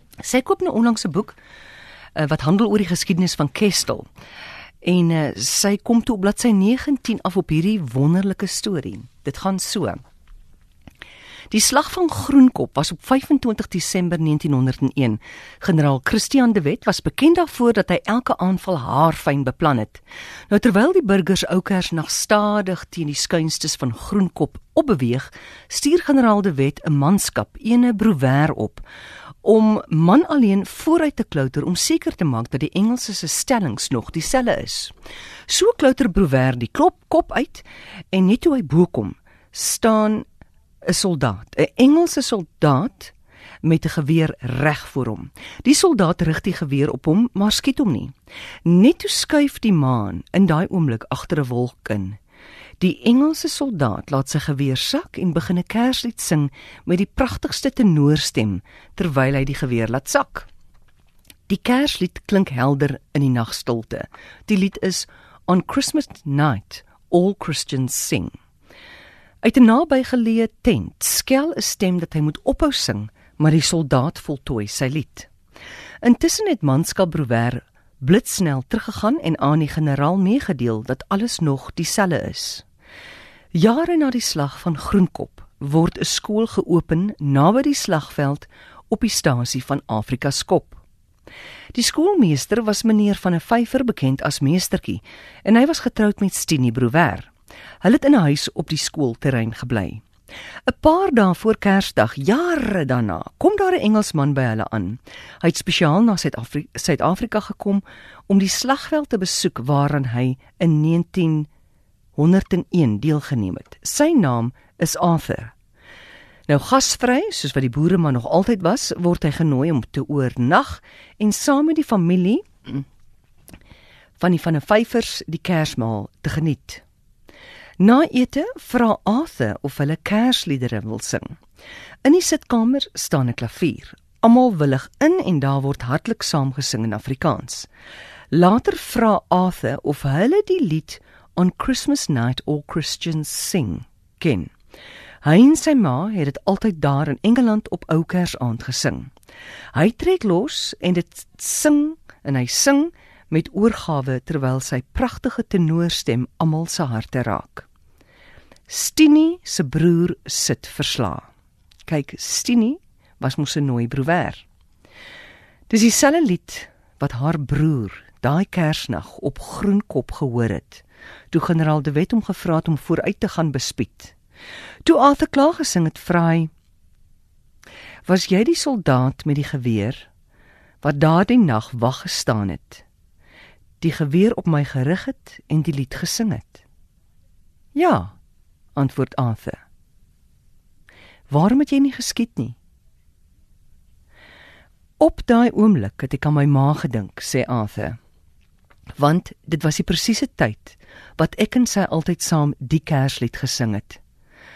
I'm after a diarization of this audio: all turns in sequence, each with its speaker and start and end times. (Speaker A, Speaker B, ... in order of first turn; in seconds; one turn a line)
Speaker A: 0.2-1.4
Speaker A: 2.1-4.1
Speaker A: 4.8-10.0
Speaker A: 11.5-28.8
Speaker A: 29.4-34.9
Speaker A: 35.5-40.3
Speaker A: 40.9-43.1
Speaker A: 43.6-48.1
Speaker A: 48.6-52.2
Speaker A: 52.8-60.5
Speaker A: 61.5-68.3
Speaker A: 69.4-75.3
Speaker A: 76.0-82.7
Speaker A: 83.5-90.8
Speaker A: 91.7-97.3
Speaker A: 97.8-100.0
Speaker A: 100.7-111.5
Speaker A: 112.2-115.5
Speaker A: 116.5-122.8
Speaker A: 124.2-126.8
Speaker A: 127.8-131.4
Speaker A: 132.0-137.7
Speaker A: 138.3-144.5
Speaker A: 145.2-149.1
Speaker A: 149.7-157.7
Speaker A: 158.7-161.3
Speaker A: 161.9-164.4
Speaker A: 165.7-174.1
Speaker A: 174.8-176.5
Speaker A: 178.1-180.1
Speaker A: 180.8-182.8
Speaker A: 183.8-186.6
Speaker A: 187.8-188.1
Speaker A: 188.8-189.6
Speaker A: 191.3-192.6
Speaker A: 195.0-198.0
Speaker A: 199.0-204.0